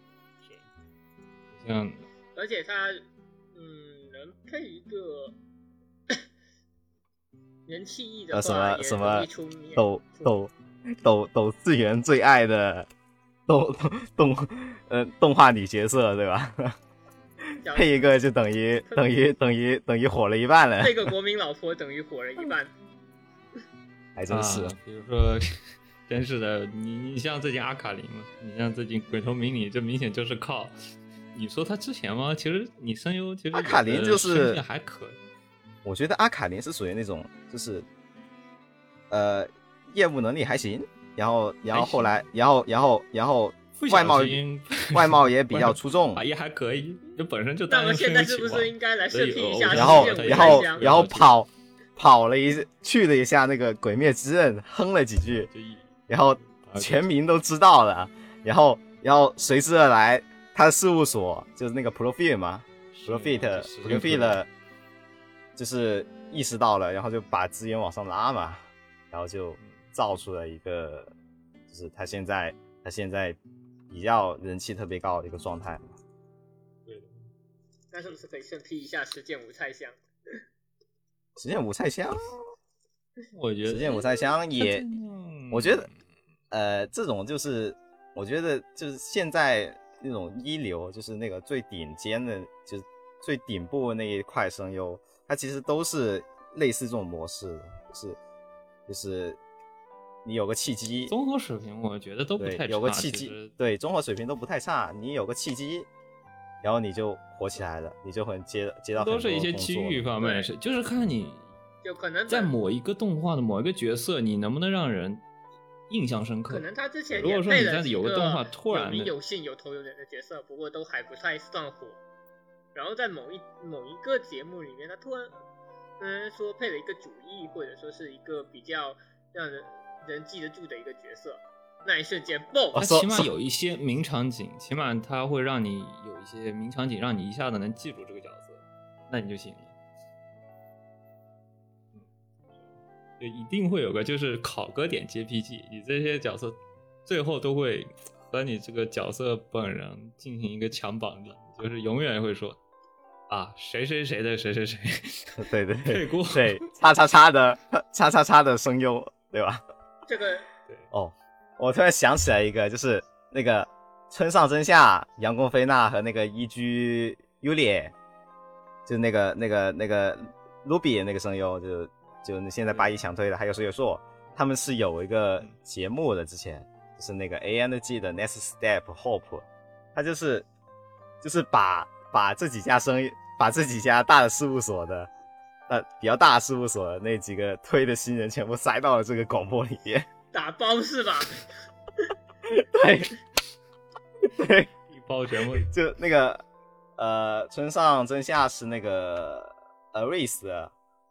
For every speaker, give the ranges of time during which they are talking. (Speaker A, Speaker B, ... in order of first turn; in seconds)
Speaker A: 1.5-2.1, 24.3-30.8, 31.3-35.2, 41.7-42.2, 43.8-51.3, 55.3-57.0, 62.9-64.4, 69.6-69.9, 76.8-77.3, 83.3-86.0, 101.1-103.5, 108.9-111.5, 112.3-115.2, 115.9-119.1, 132.7-139.7, 141.9-152.6, 153.3-156.7, 172.7-172.9, 194.9-195.7
Speaker B: 2.4-5.3, 7.7-10.3, 17.6-18.1, 20.8-22.7, 47.7-50.9, 77.9-80.4, 110.2-110.5, 111.8-112.5, 116.5-122.0, 122.7-125.3, 126.0-132.8, 160.1-160.5, 190.3-191.4
Speaker C: 8.3-12.9, 13.5-16.8, 17.7-21.1, 24.1-24.8, 33.5-34.6, 35.8-37.9, 39.1-44.4, 44.9-46.2, 49.7-55.5, 56.1-64.5, 65.5-71.1, 71.7-73.4, 73.9-76.0, 81.4-82.2, 83.6-84.8, 85.5-85.9, 86.5-98.2, 98.9-99.4, 100.2-101.1, 102.4-105.9, 106.6-110.0, 132.7-133.3, 155.4-159.6, 160.9-167.9, 168.8-180.4, 181.2-185.1, 185.7-190.1, 192.5-193.1, 194.2-194.7, 195.5-196.4, 197.0-200.7